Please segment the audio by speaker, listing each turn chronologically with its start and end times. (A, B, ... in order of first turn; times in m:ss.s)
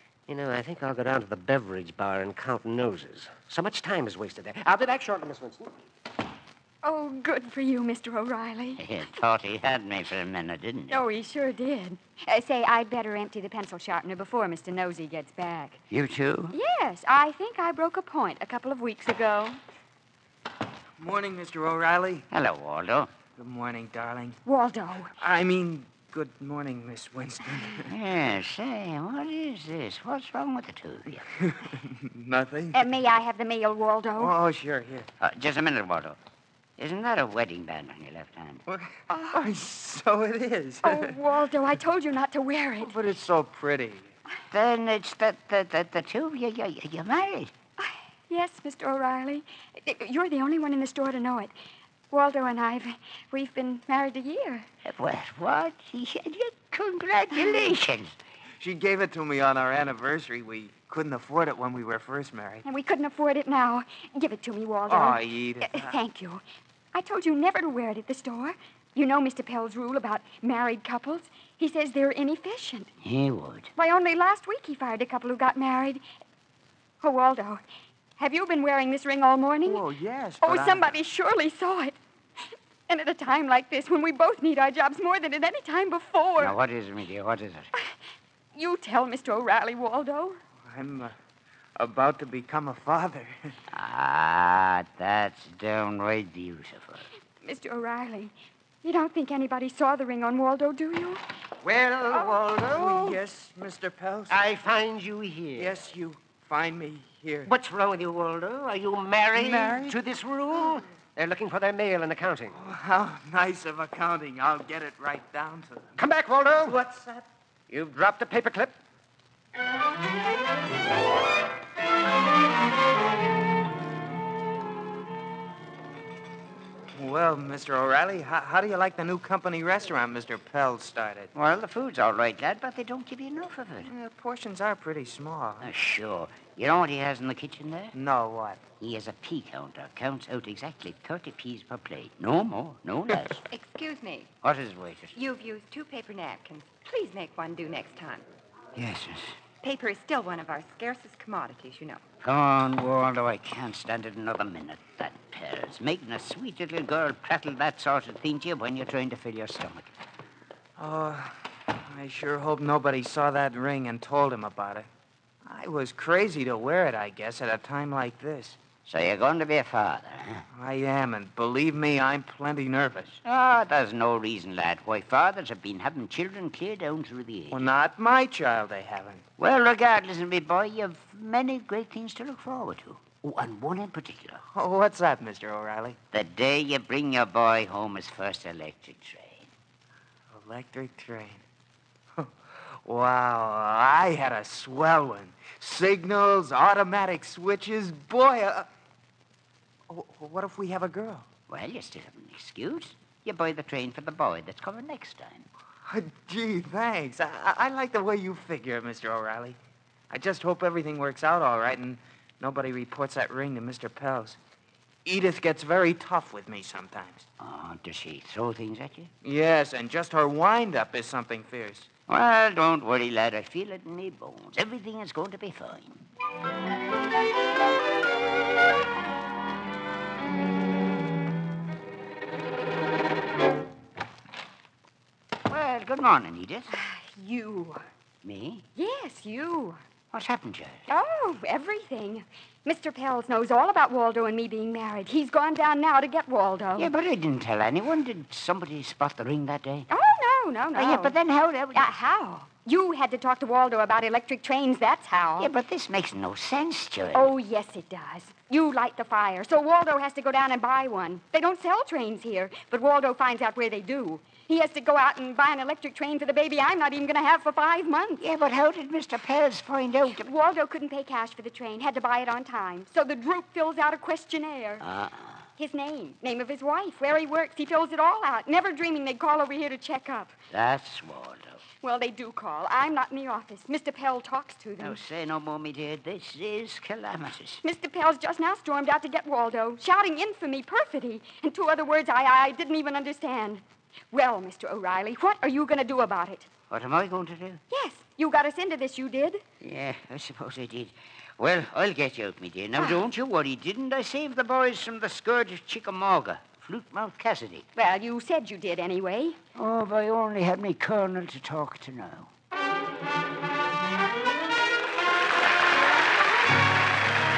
0:00.3-0:05.8 A
0:06.8-0:08.8 B
0:08.8-0:11.0 C
0:10.9-0:15.8 B
0:15.9-0:16.5 C
0:16.5-0:19.6 B
0:21.0-0:22.2 D
0:22.3-0:23.1 C
0:23.4-0:24.4 D
0:24.4-0:25.1 B
0:25.2-0:27.9 D
0:27.8-0:31.2 C
0:31.5-0:32.8 D
0:32.7-0:34.3 B
0:34.2-0:35.1 D
0:35.2-0:36.2 C
0:36.8-0:38.6 C
0:38.7-0:41.2 D
0:39.1-0:39.4 B
0:40.8-0:42.9 B
0:42.8-0:44.1 D
0:44.5-0:47.5 C
0:47.8-0:51.5 B
0:52.1-0:54.6 B
0:54.8-0:58.2 C
0:58.6-1:02.6 D
1:02.6-1:06.4 B
1:04.9-1:05.9 D
1:06.9-1:12.9 B
1:13.0-1:13.7 C
1:13.8-1:16.0 B
1:17.0-1:17.6 B
1:18.2-1:19.8 B
1:19.6-1:20.9 D
1:20.4-1:22.0 B
1:22.9-1:26.5 B
1:26.4-1:27.7 C
1:28.5-1:30.4 B
1:30.7-1:31.1 D
1:31.8-1:33.5 D
1:33.7-1:37.1 C
1:37.4-1:41.2 B
1:41.6-1:43.2 A
1:41.6-1:44.4 D
1:44.3-1:45.9 A
1:45.6-1:47.5 D
1:47.4-1:52.6 A
1:49.3-1:50.0 D
1:52.5-1:55.9 D
1:56.0-1:56.8 A
1:56.6-1:57.2 D
1:57.7-1:58.7 A
2:07.0-2:11.3 D
2:11.3-2:13.9 C
2:13.8-2:15.7 D
2:15.6-2:18.0 C
2:17.9-2:18.6 D
2:18.8-2:23.4 C
2:23.4-2:24.3 E
2:24.4-2:25.1 C
2:25.1-2:28.2 E
2:28.8-2:29.4 C
2:29.6-2:32.0 E
2:32.2-2:39.9 C
2:40.8-2:44.9 D
2:45.4-2:48.6 D
2:48.8-2:50.4 C
2:50.5-2:53.2 D
2:53.2-2:57.7 C
2:57.5-2:59.2 D
2:59.4-3:04.4 C
3:04.5-3:06.0 D
3:06.1-3:09.5 C
3:10.3-3:11.4 D
3:12.2-3:18.7 D
3:19.9-3:21.2 D
3:21.5-3:25.5 C
3:25.8-3:29.6 D
3:30.1-3:34.4 D
3:35.0-3:37.2 D
3:37.4-3:39.1 C
3:39.2-3:41.9 D
3:42.1-3:46.0 C
3:55.5-3:56.7 C
3:56.7-3:57.8 B
3:58.2-3:58.6 C
3:58.8-3:59.8 B
4:00.1-4:00.9 C
4:00.9-4:06.9 B
4:06.8-4:09.9 C
4:09.9-4:11.1 B
4:10.7-4:11.9 C
4:11.7-4:15.5 B
4:15.4-4:17.3 C
4:17.1-4:28.2 B
4:28.2-4:30.3 C
4:30.1-4:34.8 B
4:34.8-4:35.4 C
4:35.6-4:40.3 B
4:40.5-4:41.6 C
4:41.8-4:45.0 B
4:44.8-4:47.6 C
4:47.6-4:56.5 B
4:56.7-4:57.6 C
4:57.7-4:59.4 B
4:59.6-5:07.6 C
5:02.8-5:03.0 B
5:07.8-5:09.4 B
5:09.5-5:12.3 C